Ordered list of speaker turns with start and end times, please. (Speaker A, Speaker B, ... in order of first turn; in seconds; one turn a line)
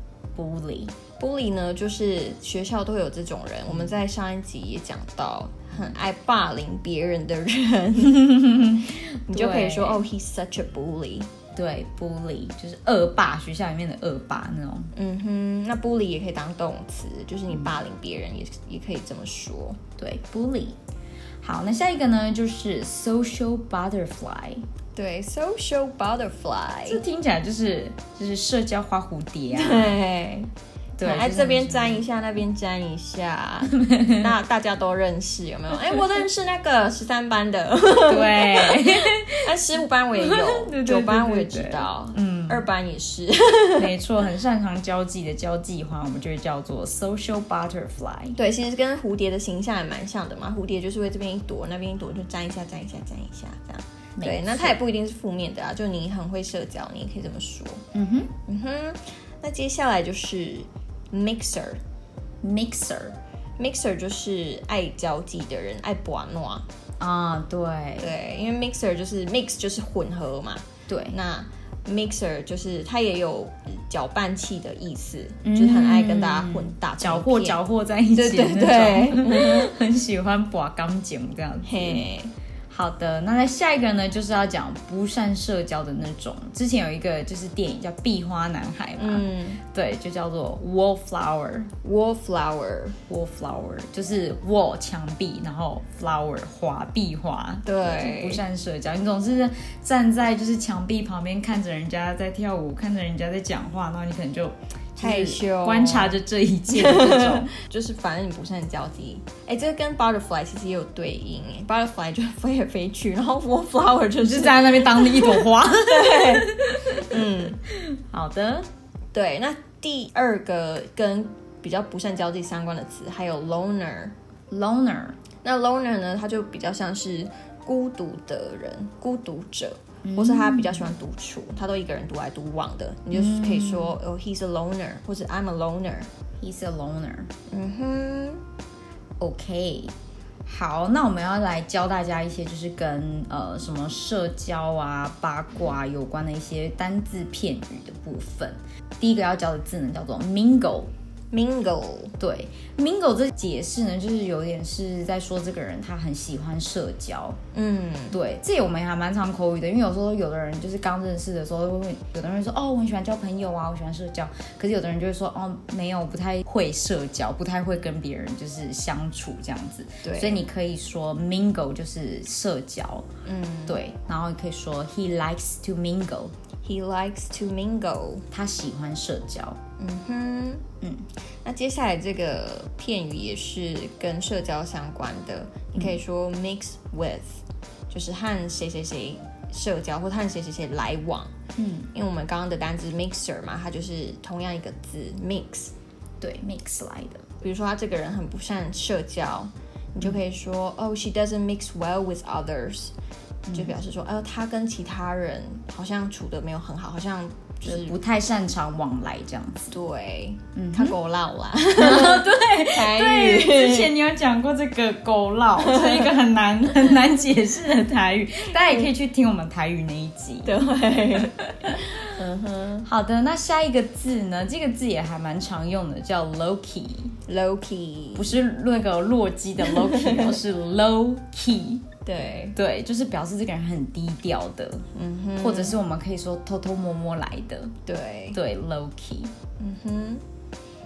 Speaker A: 0.3-0.9
Speaker B: 1.2-11.3
Speaker A: 8.2-10.0
Speaker A: 11.5-14.9
Speaker B: 14.9-19.8
Speaker A: 20.0-20.8
Speaker A: 21.4-24.6
Speaker B: 24.9-27.0
Speaker A: 26.9-30.0
Speaker B: 29.5-43.9
Speaker A: 31.0-32.0
Speaker A: 33.7-34.3
Speaker A: 38.0-39.5
Speaker A: 40.2-42.6
Speaker A: 43.8-48.4
Speaker B: 48.3-57.8
Speaker A: 54.2-54.8
Speaker A: 57.9-58.3
Speaker B: 58.4-61.8
Speaker A: 62.4-63.2
Speaker B: 63.6-66.7
Speaker A: 67.0-68.1
Speaker B: 68.0-77.6
Speaker A: 70.9-71.2
Speaker A: 75.4-82.0
Speaker B: 78.1-79.7
Speaker B: 81.7-82.3
Speaker A: 82.7-91.7
Speaker B: 89.0-89.6
Speaker B: 91.8-93.0
Speaker A: 93.1-107.5
Speaker B: 97.6-98.4
Speaker B: 105.0-106.2
Speaker B: 106.7-117.6
Speaker A: 114.2-118.7
Speaker B: 119.1-124.1
Speaker A: 124.5-125.2
Speaker B: 125.4-136.1
Speaker A: 130.0-130.9
Speaker A: 133.1-133.9
Speaker A: 136.4-137.3
Speaker B: 137.5-138.4
Speaker A: 139.2-139.9
Speaker A: 140.4-150.9
Speaker B: 151.3-152.1
Speaker A: 152.2-157.4
Speaker B: 157.5-158.2
Speaker A: 158.1-173.1
Speaker B: 170.0-170.4
Speaker B: 173.2-173.8
Speaker A: 173.7-176.3
Speaker B: 176.6-178.3
Speaker A: 178.3-179.6
Speaker B: 179.8-180.6
Speaker B: 181.4-191.3
Speaker A: 191.6-191.9
Speaker B: 191.9-195.7
Speaker A: 196.2-197.2
Speaker B: 197.4-202.9
Speaker A: 203.5-203.7
Speaker B: 203.5-207.9
Speaker A: 207.6-209.7
Speaker B: 209.7-213.9
Speaker A: 210.5-210.9
Speaker A: 211.7-220.5
Speaker B: 215.7-216.0
Speaker B: 220.4-222.8
Speaker A: 222.8-227.1
Speaker B: 227.2-228.3
Speaker A: 228.2-231.8
Speaker B: 229.6-230.4
Speaker B: 232.0-232.6
Speaker A: 232.5-234.8
Speaker B: 234.9-235.8
Speaker A: 235.4-237.7
Speaker B: 237.8-238.4
Speaker A: 238.3-239.3
Speaker B: 239.6-240.2